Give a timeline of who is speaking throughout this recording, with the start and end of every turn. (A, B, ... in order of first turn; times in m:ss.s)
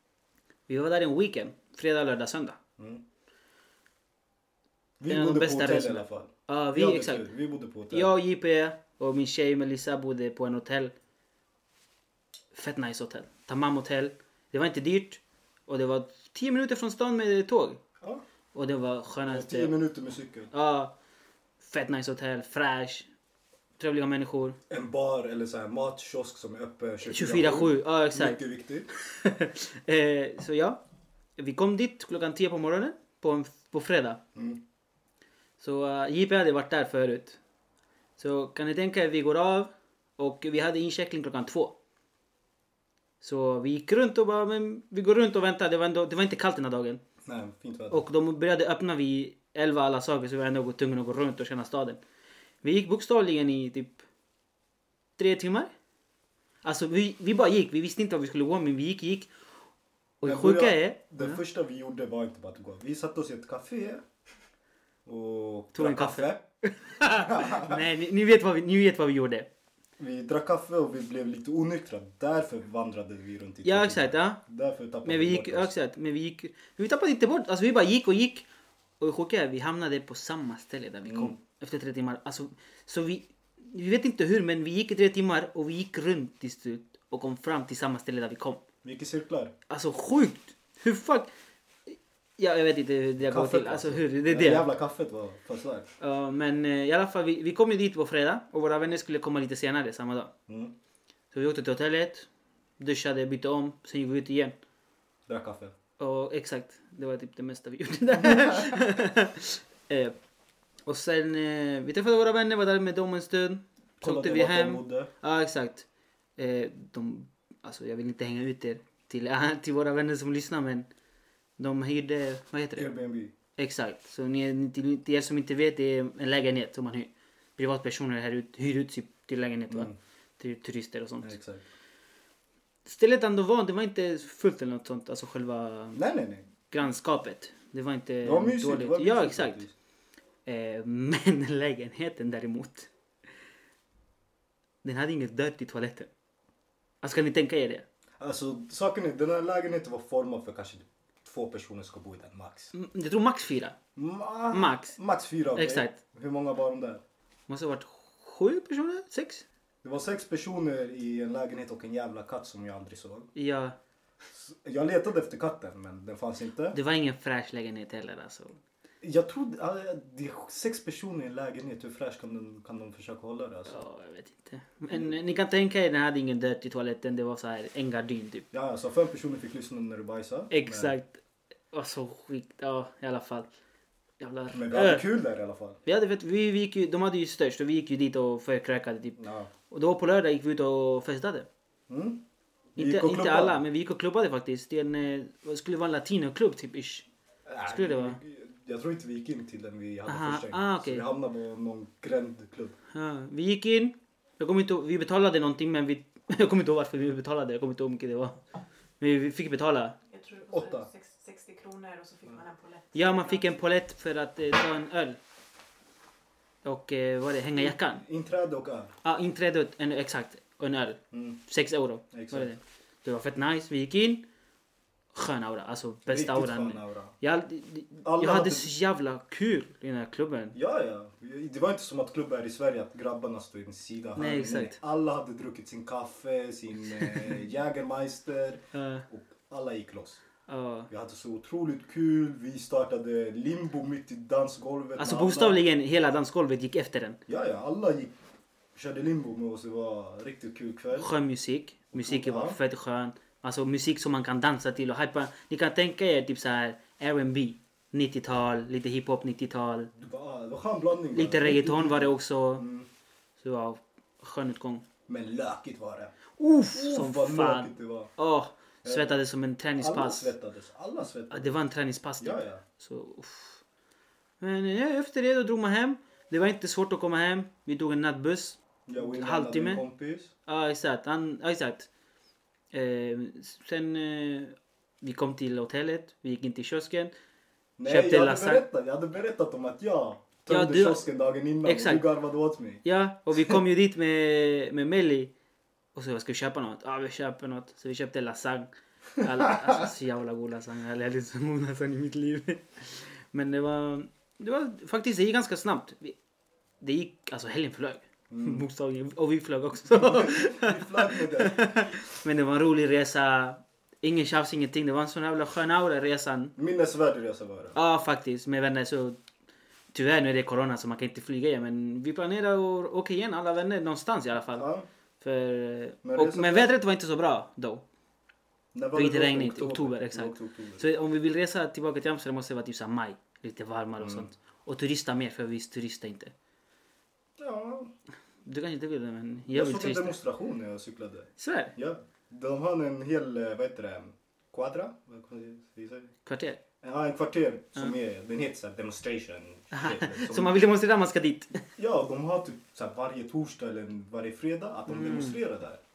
0:00.7-0:02.6 A
0:02.8-0:03.0 B
0:05.0-0:08.1 B
0:05.1-0:07.3 A
0:07.9-0:10.9 A
0:12.5-0:17.8 A
0:18.5-0:19.8 A
0:19.3-0:20.5 B
0:20.5-0:20.9 A
0:21.6-0:23.1 A
0:23.8-0:24.6 A
0:24.7-0:28.9 B
0:27.1-0:28.4 A
0:29.1-0:30.8 A
0:31.4-0:34.2 A
0:34.4-0:34.6 B
0:35.6-0:37.4 A
0:38.2-0:41.8 A
0:43.2-0:47.0 A
0:47.2-0:48.0 B
0:47.9-0:52.0 A
0:52.6-0:54.0 A
0:55.2-0:55.7 A
0:56.6-0:59.3 A
1:00.2-1:01.4 A
1:00.2-1:04.0 B
1:05.1-1:06.4 B
1:05.8-1:09.5 A
1:07.0-1:07.8 B
1:10.0-1:15.7 B
1:13.6-1:14.4 A
1:15.0-1:18.5 A
1:19.0-1:28.6 A
1:21.1-1:21.4 B
1:28.8-1:29.5 B
1:29.7-1:31.3 A
1:31.9-1:34.7 A
1:33.2-1:35.9 B
1:36.0-1:40.3 A
1:40.5-1:40.7 B
1:41.3-1:42.3 A
1:42.8-1:44.6 A
1:45.3-1:45.7 B
1:46.0-1:50.2 A
1:48.2-1:48.8 B
1:50.9-1:55.9 A
1:54.0-1:55.1 B
1:56.4-2:00.9 A
2:01.6-2:02.9 A
2:02.8-2:03.3 B
2:03.6-2:11.4 A
2:09.7-2:10.0 B
2:11.2-2:11.6 B
2:12.9-2:16.0 A
2:15.9-2:16.5 B
2:16.7-2:19.6 A
2:18.2-2:19.7 B
2:20.5-2:22.9 A
2:24.8-2:26.1 A
2:27.0-2:27.9 A
2:28.2-2:32.7 B
2:32.7-2:33.8 A
2:34.0-2:37.0 B
2:34.5-2:35.0 A
2:35.5-2:36.0 A
2:37.5-2:39.5 A
2:39.8-2:43.3 B
2:43.4-2:43.8 A
2:44.3-2:46.8 B
2:46.7-2:48.6 A
2:49.0-2:53.8 B
2:53.7-2:58.5 A
2:58.5-3:00.9 B
3:00.5-3:01.2 A
3:01.7-3:03.5 A
3:04.2-3:05.0 A
3:04.5-3:05.8 B
3:05.8-3:09.2 A
3:09.2-3:09.5 B
3:09.7-3:11.5 A
3:11.9-3:12.2 B
3:12.8-3:13.6 B
3:12.8-3:17.1 A
3:17.5-3:22.8 B
3:17.7-3:18.2 A
3:20.1-3:21.1 A
3:22.9-3:28.4 A
3:29.0-3:30.0 A
3:30.1-3:33.5 C
3:30.5-3:30.9 B
3:33.0-3:35.2 A
3:36.6-3:38.0 A
3:37.6-3:38.9 B
3:39.0-3:44.3 A
3:41.1-3:41.4 B
3:42.1-3:42.5 B
3:45.1-3:50.6 A
3:46.1-3:47.1 B
3:48.0-3:48.7 B
3:50.5-4:00.2 B
3:54.2-3:54.8 A
3:58.7-3:59.0 A
4:00.5-4:00.9 A
4:00.9-4:05.6 B
4:05.0-4:07.2 A
4:07.3-4:08.1 B
4:08.8-4:11.1 B
4:10.9-4:19.9 A
4:11.9-4:12.6 B
4:20.0-4:22.9 B
4:21.1-4:22.6 A
4:23.4-4:24.8 A
4:25.1-4:26.1 B
4:26.4-4:30.3 A
4:26.7-4:28.1 B
4:28.8-4:29.2 B
4:29.8-4:31.6 B
4:31.3-4:33.6 A
4:32.2-4:32.6 B
4:34.4-4:39.8 A
4:38.9-4:40.3 B
4:40.5-4:41.9 A
4:42.7-4:47.1 A
4:47.8-4:53.6 B
4:47.8-4:48.6 A
4:50.5-4:51.0 A
4:51.6-4:52.1 A
4:52.8-4:55.3 A
4:56.0-5:06.2 A
4:59.2-4:59.8 B
5:06.8-5:16.6 A
5:08.3-5:08.6 B
5:09.9-5:11.7 B
5:16.6-5:17.8 B
5:17.8-5:19.2 A
5:19.9-5:24.7 A
5:24.5-5:24.9 B
5:25.2-5:27.8 A
5:26.0-5:26.7 B
5:28.7-5:30.8 B
5:29.0-5:36.3 A
5:34.0-5:34.3 B
5:37.4-5:37.9 B
5:38.4-5:40.2 A
5:39.5-5:46.1 B
5:41.4-5:41.8 A
5:46.3-5:46.6 A
5:46.8-5:50.6 B
5:49.7-5:51.6 A
5:51.8-5:55.8 B
5:54.9-5:55.4 A